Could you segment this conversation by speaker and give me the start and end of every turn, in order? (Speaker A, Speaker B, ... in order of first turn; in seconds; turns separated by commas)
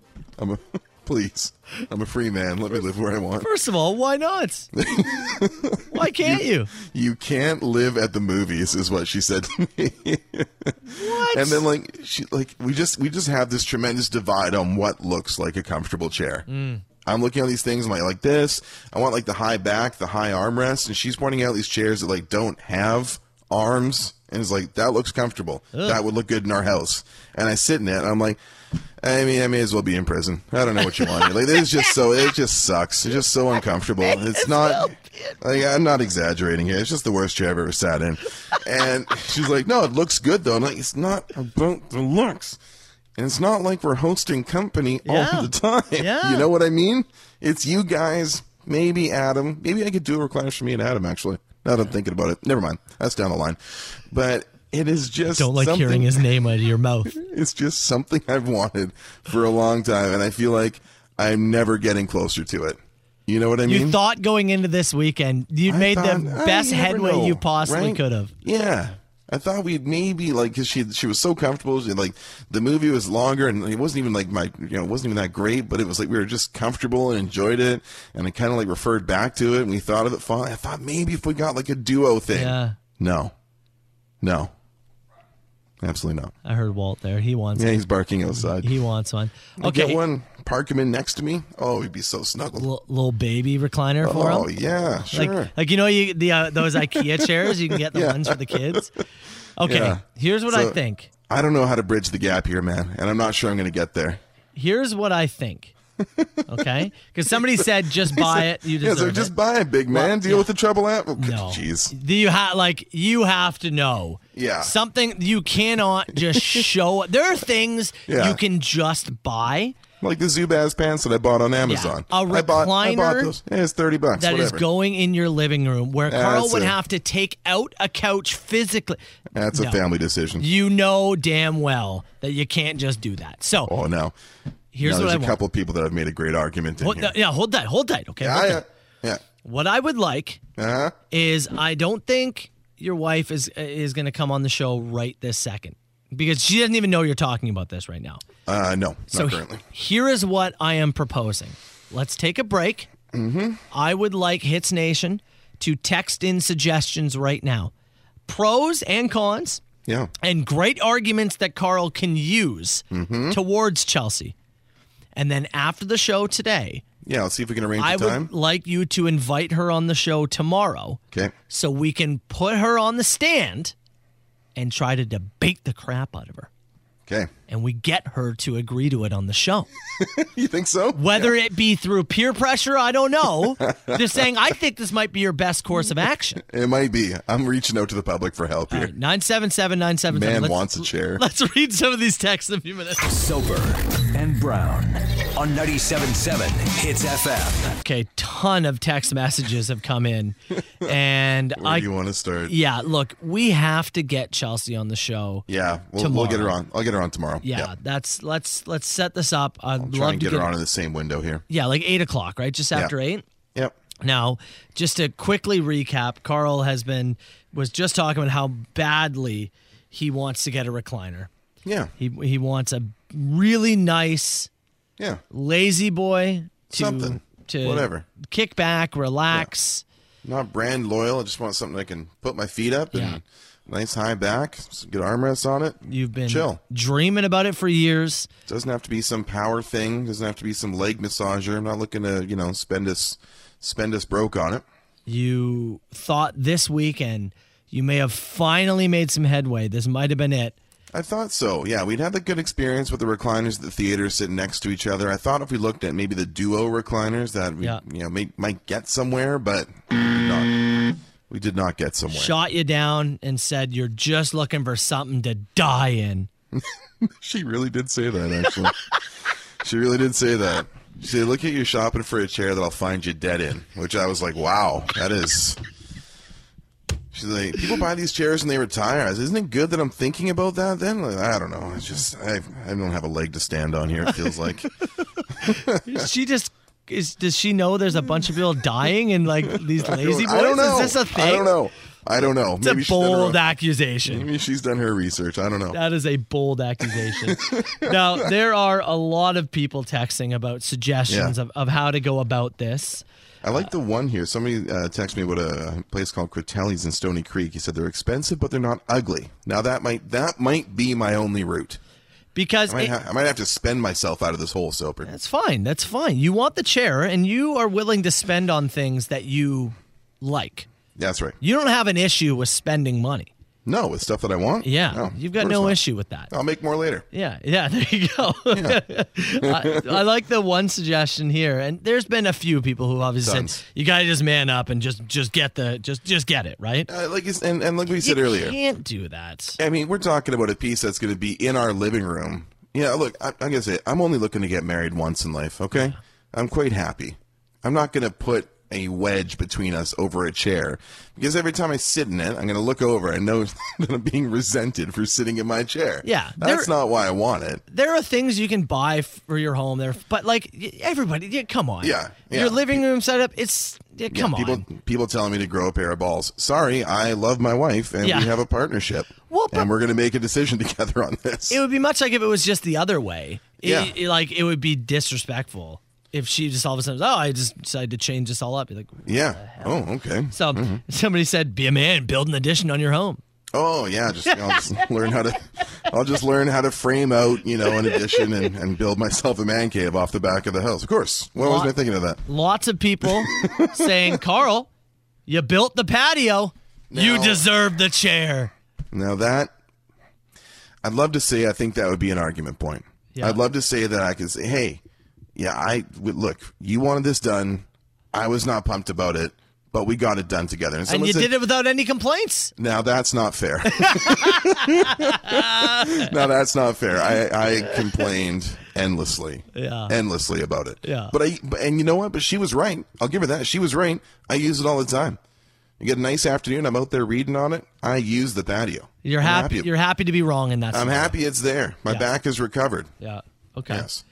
Speaker A: 0.4-3.5, Speaker B: 3.4-4.7, Speaker A: 4.7-16.5, Speaker B: 5.9-6.7, Speaker B: 10.9-11.7, Speaker B: 16.5-16.8, Speaker A: 17.0-28.4, Speaker B: 25.7-26.0, Speaker A: 29.0-42.6, Speaker B: 31.0-31.3, Speaker B: 34.0-35.3, Speaker A: 43.1-56.2, Speaker B: 45.0-46.5, Speaker B: 55.4-57.1, Speaker A: 57.1-64.0, Speaker B: 63.6-68.3, Speaker A: 65.7-83.3, Speaker B: 82.3-82.8, Speaker A: 84.2-84.5, Speaker A: 85.8-86.3, Speaker B: 86.4-90.0, Speaker A: 87.5-88.8, Speaker A: 89.6-92.7, Speaker B: 92.6-94.5, Speaker A: 94.0-95.5, Speaker B: 95.1-98.9, Speaker A: 96.8-98.9, Speaker B: 99.6-101.1, Speaker A: 99.6-104.2, Speaker B: 104.5-105.7, Speaker A: 106.0-111.9, Speaker B: 106.5-109.3, Speaker B: 109.9-110.5, Speaker B: 111.2-119.8, Speaker A: 114.3-114.7, Speaker A: 116.1-116.7, Speaker A: 118.1-118.4, Speaker A: 120.0-124.6, Speaker B: 121.6-123.3, Speaker B: 124.2-129.0, Speaker A: 126.1-126.8, Speaker A: 129.3-130.5, Speaker B: 129.5-129.8, Speaker B: 130.4-133.7, Speaker A: 133.6-134.1, Speaker B: 134.7-135.4, Speaker A: 134.8-137.2, Speaker B: 136.8-138.6, Speaker A: 138.2-139.2, Speaker B: 139.4-140.4, Speaker A: 140.6-140.9, Speaker B: 141.1-148.2, Speaker A: 148.4-149.6, Speaker B: 149.1-152.9, Speaker A: 153.1-153.6, Speaker B: 153.7-157.7, Speaker B: 158.3-159.6, Speaker A: 159.8-160.1, Speaker B: 160.2-164.3, Speaker A: 162.9-163.4, Speaker B: 165.2-166.8, Speaker A: 167.0-168.3, Speaker B: 167.8-173.7, Speaker B: 174.6-176.5, Speaker B: 177.5-179.7, Speaker A: 180.0-181.3, Speaker B: 180.9-186.4, Speaker A: 183.6-184.2, Speaker A: 186.4-188.9, Speaker B: 188.7-193.0, Speaker A: 190.1-191.2, Speaker C: 193.0-197.7, Speaker B: 197.8-201.9, Speaker A: 201.5-202.5, Speaker B: 202.4-205.4, Speaker A: 205.5-207.7, Speaker B: 206.0-206.6, Speaker B: 207.4-210.5, Speaker A: 209.8-211.4, Speaker B: 211.5-213.2, Speaker B: 214.0-221.3, Speaker A: 221.6-221.9, Speaker B: 222.0-224.5, Speaker A: 225.0-225.2, Speaker B: 225.3-229.8, Speaker A: 226.7-228.1, Speaker A: 230.2-236.6, Speaker B: 232.9-233.2, Speaker B: 235.8-238.3, Speaker A: 238.5-244.6, Speaker B: 245.1-250.6, Speaker A: 250.9-262.4, Speaker B: 262.1-266.3, Speaker A: 266.5-268.8, Speaker A: 269.6-275.6, Speaker A: 277.1-284.7, Speaker A: 285.4-286.0, Speaker B: 285.4-291.5, Speaker A: 289.5-293.4, Speaker B: 292.6-294.3, Speaker A: 294.1-295.8, Speaker B: 295.7-303.0, Speaker A: 296.9-298.3, Speaker A: 301.1-301.4, Speaker A: 303.4-311.8, Speaker B: 312.3-312.9, Speaker A: 312.7-315.1, Speaker B: 315.0-320.7, Speaker A: 320.9-321.4, Speaker B: 321.4-323.3, Speaker A: 323.6-325.8, Speaker B: 324.6-326.3, Speaker A: 326.3-327.0, Speaker B: 327.1-336.9, Speaker A: 328.5-328.8, Speaker A: 329.4-330.0, Speaker A: 333.2-333.6, Speaker A: 336.9-338.6, Speaker B: 338.0-339.6, Speaker A: 339.6-357.6, Speaker B: 345.7-346.0, Speaker B: 356.0-356.7, Speaker B: 357.7-364.6, Speaker A: 361.8-362.8, Speaker A: 364.1-371.6, Speaker B: 368.0-368.3, Speaker B: 369.3-369.7, Speaker B: 371.5-383.2, Speaker A: 373.6-373.9, Speaker A: 379.1-380.8, Speaker A: 383.5-392.2, Speaker B: 384.3-384.8, Speaker B: 391.4-391.7, Speaker B: 392.2-394.7, Speaker A: 393.1-394.2, Speaker B: 395.3-398.5, Speaker A: 396.9-397.4, Speaker A: 398.9-399.5, Speaker A: 400.8-404.8, Speaker B: 403.1-403.4, Speaker A: 405.4-411.3, Speaker B: 410.9-412.5, Speaker A: 412.6-425.2, Speaker B: 413.7-416.1, Speaker B: 417.6-418.1, Speaker B: 419.5-419.9, Speaker B: 420.8-421.1, Speaker A: 425.8-429.7, Speaker B: 429.0-431.1, Speaker A: 430.7-432.9, Speaker B: 433.0-433.9, Speaker A: 433.7-434.0